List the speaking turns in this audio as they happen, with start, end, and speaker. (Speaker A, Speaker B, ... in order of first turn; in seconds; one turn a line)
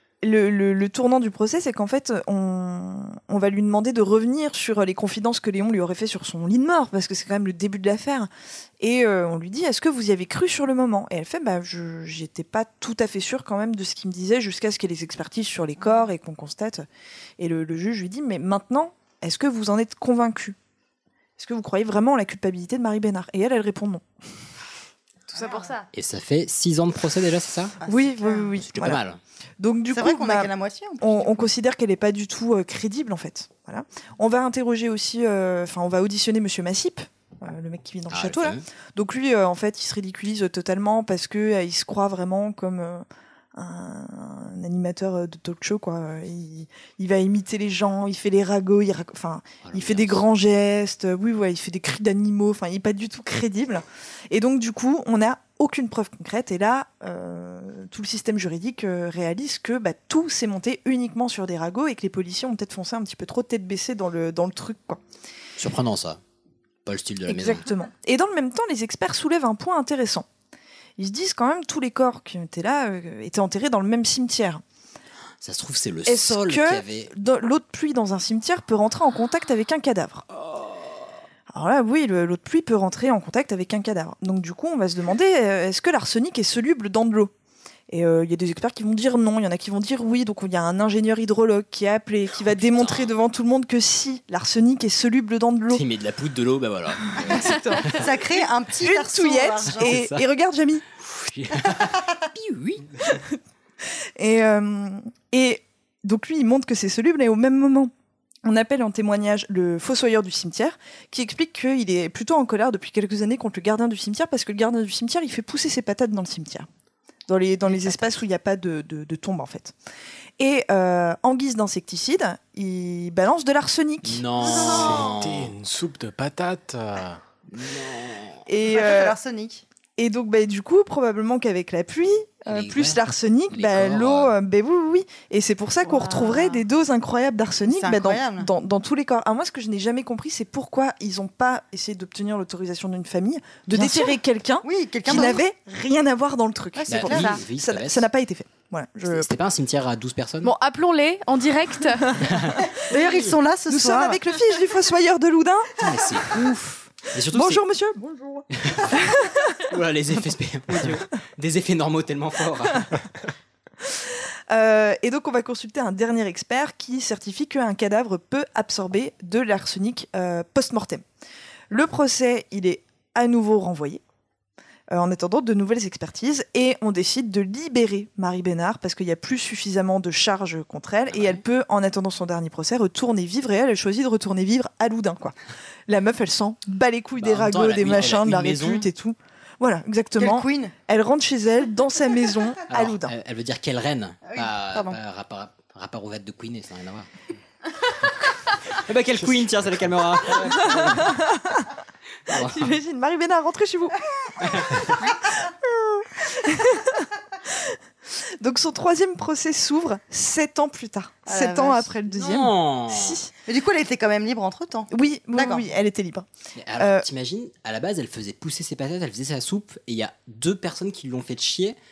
Speaker A: 0.2-8.3
Speaker A: 8.8-16.9
Speaker A: 17.4-20.6
Speaker A: 21.4-24.1
Speaker B: 25.3-25.9
Speaker C: 25.9-27.8
Speaker D: 27.8-28.5
Speaker A: 27.9-29.0
Speaker C: 28.6-29.2
Speaker A: 29.6-65.0
Speaker D: 29.9-31.5
Speaker C: 38.1-38.6
Speaker C: 49.6-50.2
Speaker C: 65.6-66.2
Speaker C: 66.8-67.7
Speaker A: 67.3-70.3
Speaker A: 71.0-74.6
Speaker C: 75.4-77.1
Speaker A: 76.0-80.2
Speaker C: 80.4-80.7
Speaker A: 81.5-87.3
Speaker A: 87.9-95.8
Speaker C: 92.4-93.1
Speaker C: 95.7-98.1
Speaker A: 97.2-98.1
Speaker D: 97.8-100.0
Speaker A: 98.8-100.8
Speaker C: 99.7-100.3
Speaker C: 101.0-103.2
Speaker A: 104.2-107.9
Speaker A: 108.4-116.7
Speaker A: 117.3-119.8
Speaker A: 120.4-124.2
Speaker C: 124.0-125.5
Speaker D: 124.5-125.0
Speaker E: 124.8-127.2
Speaker C: 127.5-128.4
Speaker A: 128.5-129.2
Speaker D: 128.7-129.6
Speaker A: 130.0-149.3
Speaker C: 132.5-134.3
Speaker B: 135.9-136.6
Speaker D: 137.6-138.5
Speaker D: 144.6-145.4
Speaker D: 146.8-147.4
Speaker C: 146.9-148.1
Speaker C: 149.1-150.5
Speaker B: 150.4-152.1
Speaker A: 152.1-152.6
Speaker C: 152.2-153.3
Speaker D: 152.9-154.6
Speaker A: 153.7-159.6
Speaker C: 155.8-157.6
Speaker C: 158.6-158.9
Speaker C: 159.7-163.0
Speaker A: 163.8-171.0
Speaker A: 171.7-174.0
Speaker A: 174.9-185.4
Speaker C: 181.1-181.4
Speaker A: 185.9-193.1
Speaker C: 187.2-188.9
Speaker D: 190.2-190.7
Speaker C: 192.7-197.1
Speaker D: 194.2-195.0
Speaker C: 198.7-201.2
Speaker A: 200.4-201.7
Speaker C: 202.3-202.8
Speaker A: 202.3-204.0
Speaker C: 204.4-204.8
Speaker A: 204.9-207.8
Speaker A: 208.4-213.3
Speaker D: 211.3-211.9
Speaker C: 212.1-213.2
Speaker D: 213.5-215.7
Speaker A: 214.9-217.0
Speaker C: 216.6-221.8